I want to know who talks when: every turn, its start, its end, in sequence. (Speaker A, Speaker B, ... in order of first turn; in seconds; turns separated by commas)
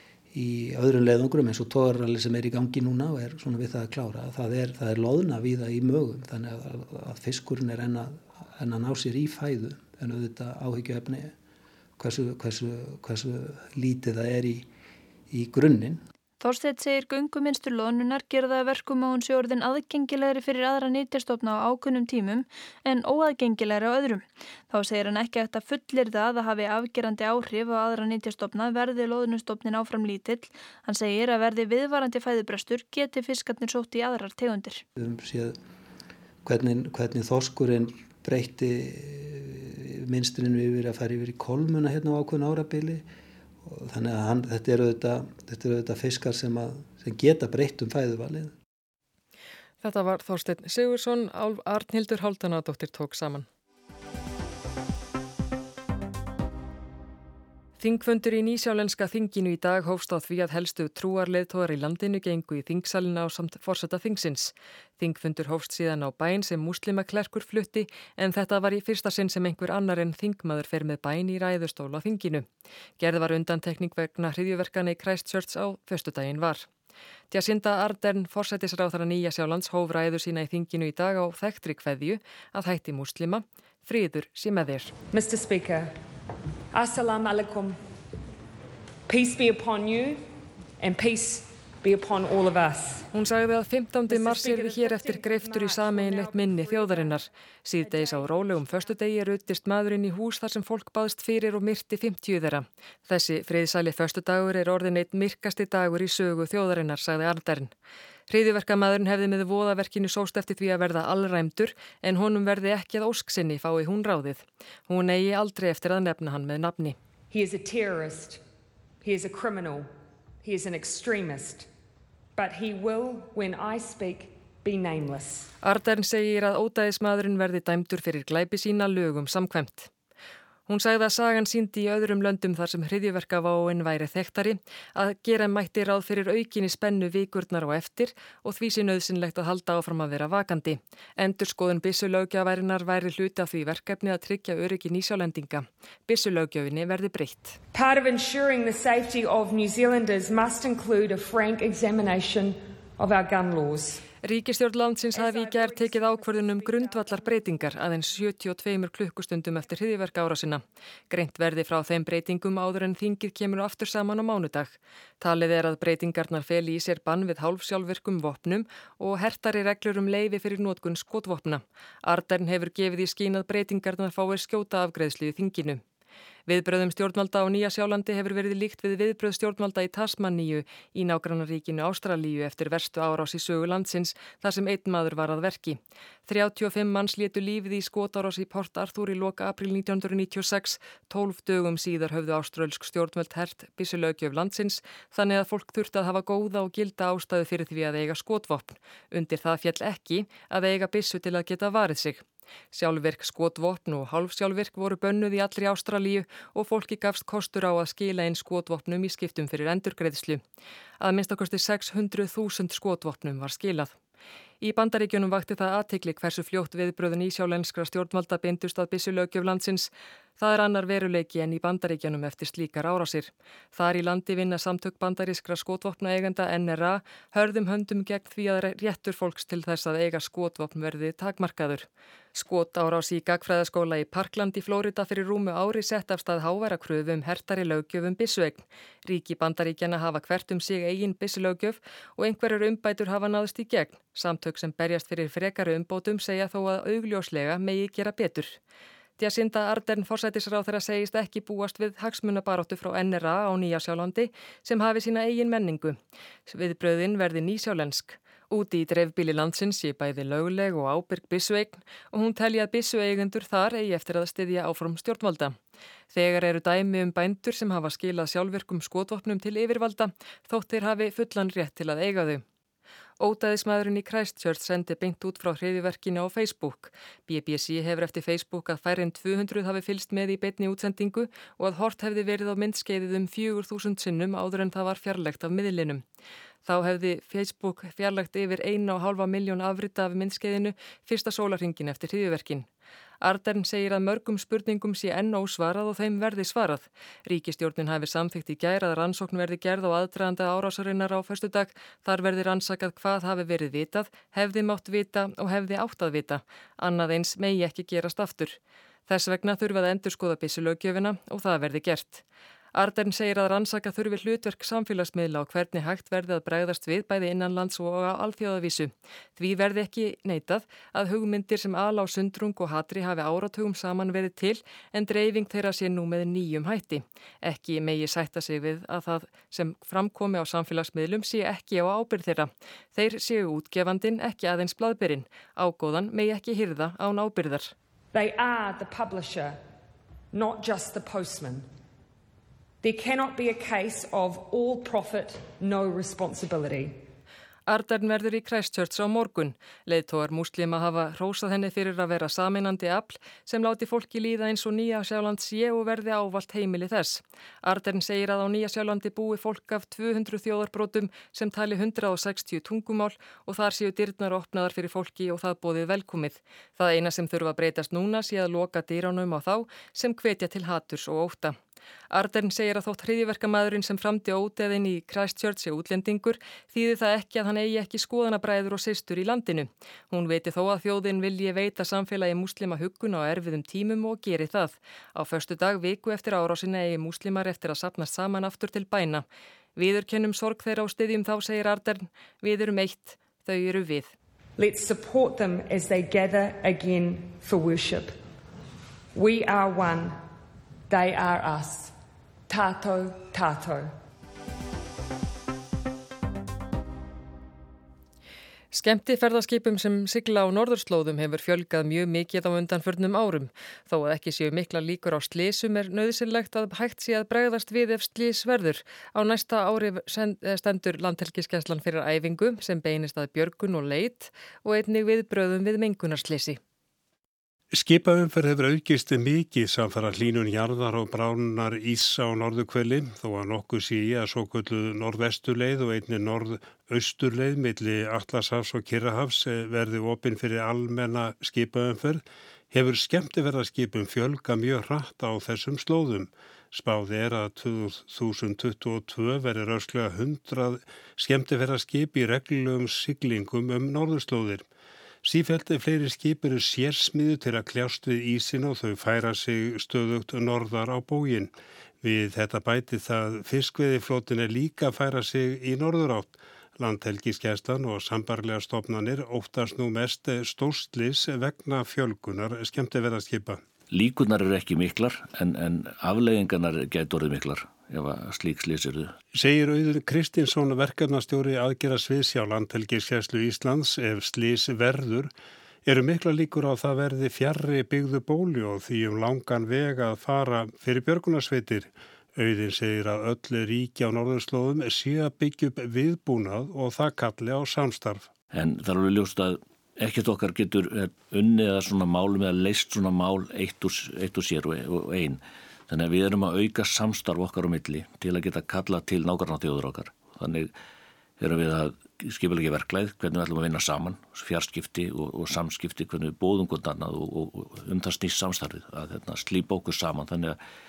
Speaker A: 0.3-11.3, Speaker A: 12.0-14.7, Speaker A: 15.3-16.0, Speaker B: 16.4-34.8, Speaker A: 35.0-35.5, Speaker A: 36.4-43.0, Speaker A: 43.6-48.5, Speaker C: 49.8-53.5, Speaker C: 57.8-72.5, Speaker C: 73.0-76.7, Speaker C: 77.3-84.9, Speaker D: 85.1-85.9, Speaker D: 86.7-87.8, Speaker D: 89.1-90.2, Speaker D: 90.8-93.1, Speaker C: 93.1-107.7, Speaker D: 94.1-97.2, Speaker D: 97.8-99.1, Speaker C: 108.3-117.0, Speaker D: 117.3-118.4, Speaker D: 119.0-119.9, Speaker D: 120.4-121.7, Speaker D: 122.3-125.5, Speaker C: 125.6-129.9, Speaker C: 130.7-147.6, Speaker D: 147.7-154.0, Speaker C: 154.2-175.8, Speaker D: 155.1-157.9, Speaker C: 176.5-210.4, Speaker C: 211.0-213.9, Speaker C: 214.6-248.6, Speaker C: 249.2-265.6, Speaker C: 266.1-272.4, Speaker C: 273.2-286.0, Speaker C: 286.6-292.7, Speaker C: 293.2-312.2, Speaker C: 312.7-337.7, Speaker D: 338.1-339.6, Speaker D: 340.3-341.7, Speaker D: 342.8-347.1, Speaker C: 347.7-371.6, Speaker C: 372.1-389.2, Speaker C: 389.8-394.1, Speaker D: 394.6-398.2, Speaker D: 399.1-400.2, Speaker D: 400.9-401.9, Speaker D: 402.5-403.9, Speaker C: 408.7-426.6, Speaker E: 427.7-454.6, Speaker E: 455.2-461.5, Speaker E: 462.0-473.6, Speaker F: 473.9-479.1, Speaker E: 479.3-485.3, Speaker E: 485.9-498.3, Speaker F: 498.5-510.7, Speaker F: 511.4-520.6